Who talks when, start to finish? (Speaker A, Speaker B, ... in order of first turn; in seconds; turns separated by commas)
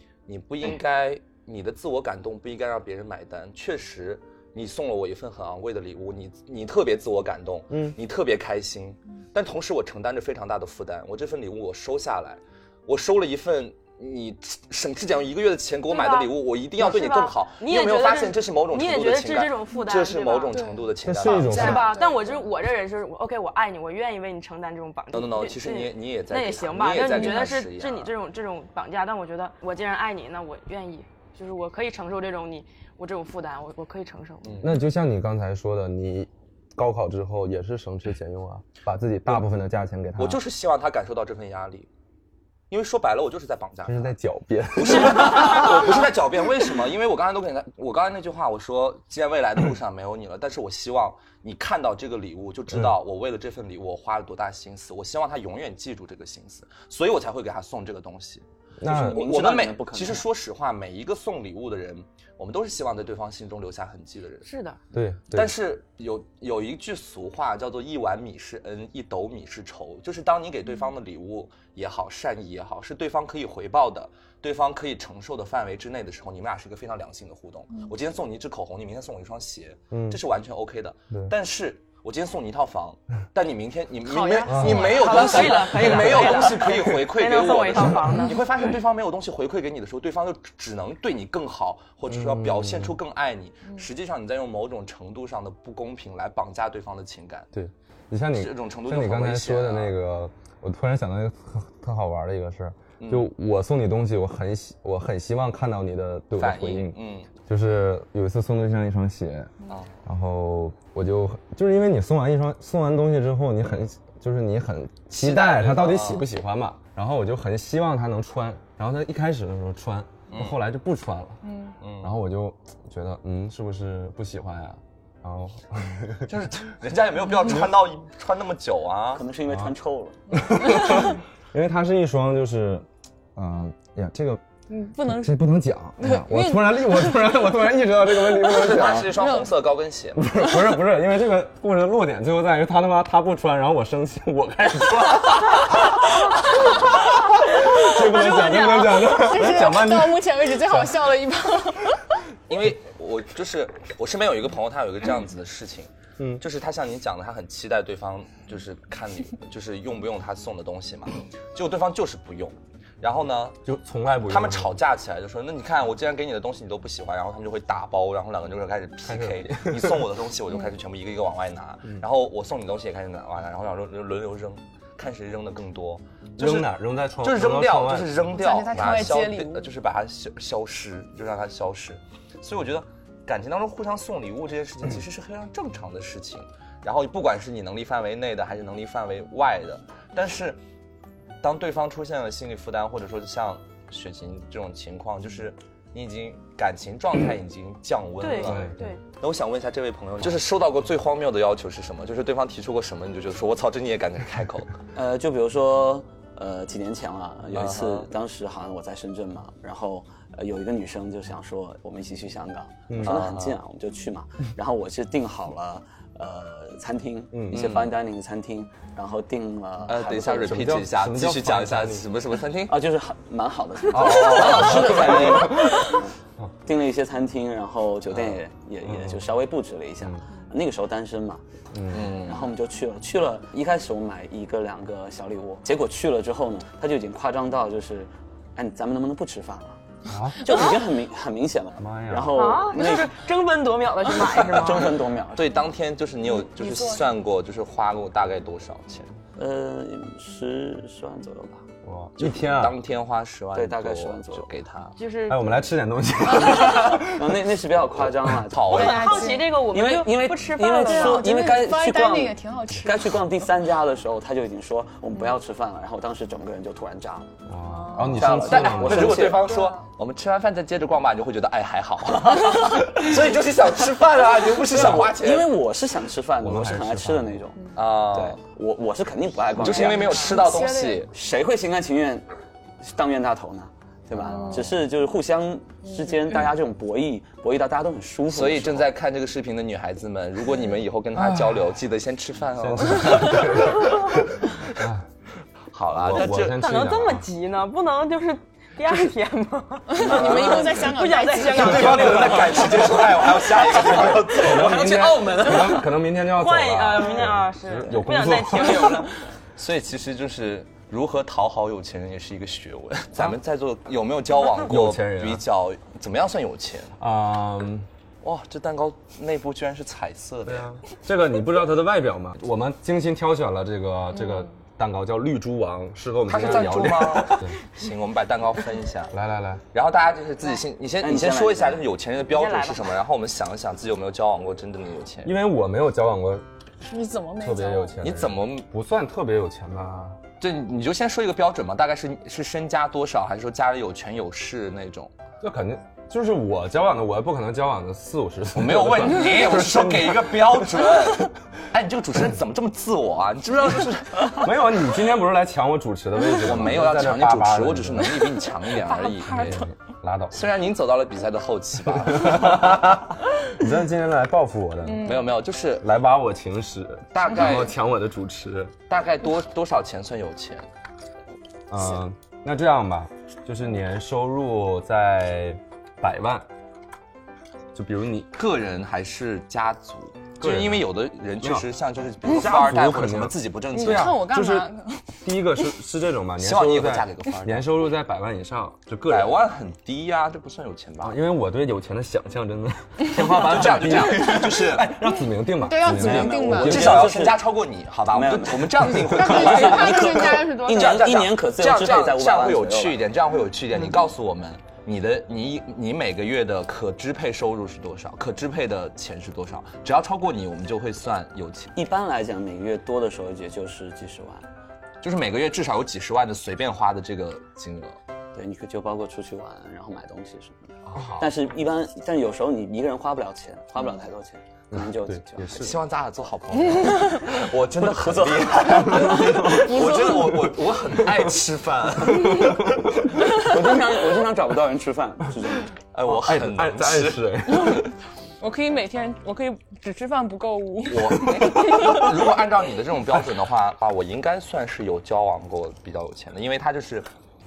Speaker A: 0.3-21.8, Speaker B: 7.7-8.0, Speaker C: 15.9-20.6, Speaker D: 20.5-22.5, Speaker B: 21.0-21.9, Speaker C: 21.4-34.6, Speaker A: 25.1-28.1, Speaker D: 27.1-27.5, Speaker A: 34.4-34.8, Speaker B: 34.6-40.4, Speaker A: 40.2-41.9, Speaker A: 42.7-44.1, Speaker B: 43.9-46.0, Speaker A: 44.8-64.5, Speaker B: 58.8-59.2, Speaker E: 58.9-60.2, Speaker C: 64.4-64.8, Speaker B: 64.9-65.5, Speaker A: 65.3-97.5, Speaker B: 79.9-80.2, Speaker D: 84.0-86.5, Speaker B: 84.5-84.9, Speaker C: 84.7-88.4, Speaker B: 92.1-93.0, Speaker B: 97.5-126.3, Speaker A: 98.3-99.9, Speaker A: 103.0-103.3, Speaker A: 106.4-107.3, Speaker A: 115.1-116.2, Speaker A: 120.3-120.6, Speaker D: 121.4-121.8, Speaker A: 121.8-122.1, Speaker A: 126.3-129.2, Speaker E: 129.1-130.4, Speaker B: 129.5-129.7, Speaker B: 130.3-134.4, Speaker D: 130.8-131.1, Speaker D: 134.7-135.4, Speaker B: 135.0-139.2, Speaker D: 136.0-137.1, Speaker A: 138.4-140.3, Speaker D: 138.9-139.5, Speaker B: 140.2-151.1, Speaker D: 147.3-152.1, Speaker A: 152.5-163.6, Speaker B: 163.6-164.8, Speaker A: 164.3-176.7, Speaker B: 169.1-170.1, Speaker B: 176.4-178.3, Speaker A: 177.2-190.6, Speaker D: 178.3-179.7, Speaker A: 191.4-204.7, Speaker C: 198.2-199.0, Speaker B: 198.4-198.9, Speaker E: 204.9-220.6, Speaker A: 207.5-208.1, Speaker B: 212.9-213.2, Speaker A: 213.0-213.6, Speaker B: 217.3-217.7, Speaker A: 217.5-217.9, Speaker A: 219.9-222.8, Speaker B: 220.5-222.1, Speaker E: 222.7-231.4, Speaker A: 223.9-225.6, Speaker B: 223.9-226.5, Speaker A: 228.1-228.4, Speaker B: 228.8-229.3, Speaker B: 231.7-232.2, Speaker A: 231.9-232.5, Speaker E: 232.0-239.8, Speaker B: 240.1-240.5, Speaker E: 240.3-243.1, Speaker B: 241.8-242.4, Speaker C: 242.3-244.9, Speaker E: 244.2-245.4, Speaker A: 245.3-249.1, Speaker D: 246.3-247.0, Speaker E: 249.3-251.7, Speaker B: 251.8-252.8, Speaker A: 252.2-254.9, Speaker E: 253.5-254.5, Speaker C: 254.9-255.4, Speaker B: 255.3-257.4, Speaker E: 256.6-258.9, Speaker B: 258.0-258.4, Speaker A: 258.5-259.2, Speaker D: 258.7-259.5, Speaker C: 258.7-261.2, Speaker E: 259.7-267.4, Speaker D: 260.7-263.2, Speaker B: 267.5-269.4, Speaker D: 267.6-269.8, Speaker E: 268.0-269.5, Speaker A: 268.2-275.5, Speaker E: 274.6-280.5, Speaker B: 276.4-277.3, Speaker A: 277.7-278.4, Speaker A: 279.6-281.1, Speaker D: 279.6-281.1, Speaker E: 281.1-282.2, Speaker E: 282.8-288.9, Speaker D: 284.2-284.8, Speaker A: 288.3-294.8, Speaker B: 291.1-291.7, Speaker B: 292.6-295.1, Speaker A: 295.7-296.6, Speaker B: 295.9-297.2, Speaker C: 296.1-303.0, Speaker D: 299.9-302.5, Speaker A: 300.0-300.9, Speaker A: 301.6-305.8, Speaker B: 301.8-302.4, Speaker B: 303.7-309.0, Speaker C: 304.4-309.1, Speaker A: 309.6-317.0, Speaker B: 314.5-315.4, Speaker B: 317.0-317.9, Speaker A: 318.2-320.7, Speaker B: 320.4-327.6, Speaker D: 324.1-324.5, Speaker A: 326.3-329.1, Speaker B: 329.1-329.6, Speaker A: 329.7-335.3, Speaker E: 331.0-331.8, Speaker C: 332.2-333.0, Speaker B: 335.2-336.4, Speaker D: 336.8-338.0, Speaker B: 337.4-340.2, Speaker A: 338.0-338.7, Speaker A: 340.4-345.1, Speaker B: 345.4-350.9, Speaker A: 348.5-354.5, Speaker B: 354.3-358.3, Speaker A: 356.4-359.6, Speaker D: 358.8-359.7, Speaker B: 359.3-360.5, Speaker A: 360.3-362.8, Speaker B: 361.9-365.2, Speaker D: 364.8-365.3, Speaker A: 365.0-365.9, Speaker B: 365.8-368.7, Speaker A: 367.1-367.7, Speaker A: 368.9-370.7, Speaker B: 371.7-376.5, Speaker B: 377.7-378.3, Speaker A: 378.3-384.2, Speaker B: 380.4-380.9, Speaker B: 381.4-381.7, Speaker B: 382.2-384.7, Speaker D: 383.7-385.2, Speaker B: 385.2-389.3, Speaker A: 386.4-387.7, Speaker A: 389.1-391.2, Speaker B: 391.0-397.1, Speaker A: 393.1-395.2, Speaker D: 395.6-397.1, Speaker A: 395.8-411.7, Speaker E: 396.1-397.4, Speaker E: 398.1-403.0, Speaker B: 398.9-399.4, Speaker D: 399.1-401.1, Speaker E: 411.7-414.4, Speaker A: 415.0-418.0, Speaker E: 418.3-425.7, Speaker A: 420.9-421.3, Speaker B: 424.7-425.8, Speaker A: 425.5-433.0, Speaker D: 426.8-427.1, Speaker E: 427.4-429.4, Speaker B: 428.6-430.2, Speaker D: 429.4-430.4, Speaker D: 432.1-432.6, Speaker B: 432.2-432.9, Speaker E: 433.3-435.7, Speaker A: 435.9-437.8, Speaker B: 436.1-437.9, Speaker D: 438.4-442.4, Speaker A: 440.9-447.1